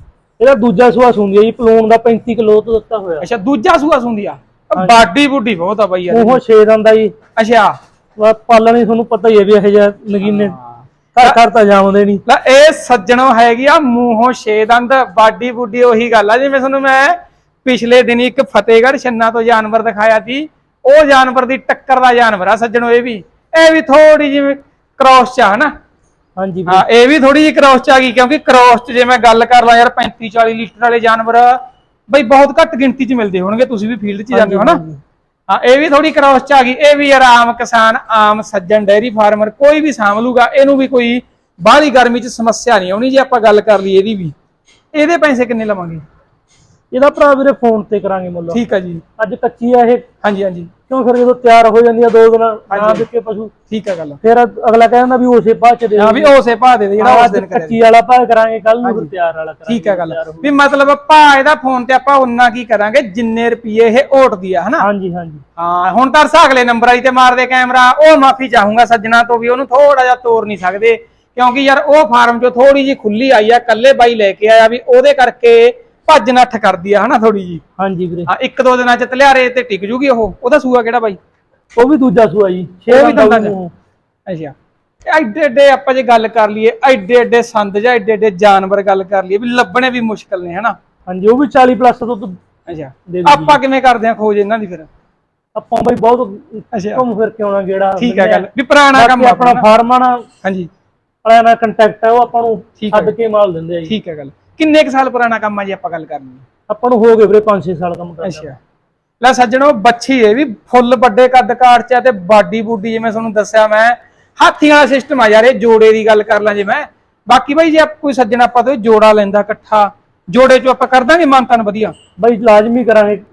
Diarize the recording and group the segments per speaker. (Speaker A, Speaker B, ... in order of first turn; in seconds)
Speaker A: 0.4-3.3, 4.8-5.1, 6.1-7.1, 8.2-10.6, 11.1-12.2, 26.4-26.9, 34.3-35.0, 46.9-48.6, 49.2-50.0, 50.9-53.5, 54.2-56.3, 57.0-60.5, 64.8-65.4, 77.8-78.3, 81.8-83.7, 91.1-92.4, 93.1-93.6, 95.6-100.2, 101.2-103.9, 106.7-108.5, 122.2-123.2
Speaker B: 3.2-6.4, 7.4-7.7, 10.2-11.4, 12.3-25.7, 26.7-34.8, 35.5-44.3, 44.9-46.0, 48.5-49.0, 50.2-50.7, 52.7-53.1, 53.7-54.2, 56.0-57.8, 58.8-59.1, 59.7-64.9, 65.6-77.6, 78.3-81.2, 82.9-83.6, 84.3-84.5, 85.1-90.8, 92.7-94.9, 96.7-97.0, 98.0-99.7, 100.4-100.7, 102.8-103.1, 103.9-106.5, 108.2-108.6, 109.2-121.9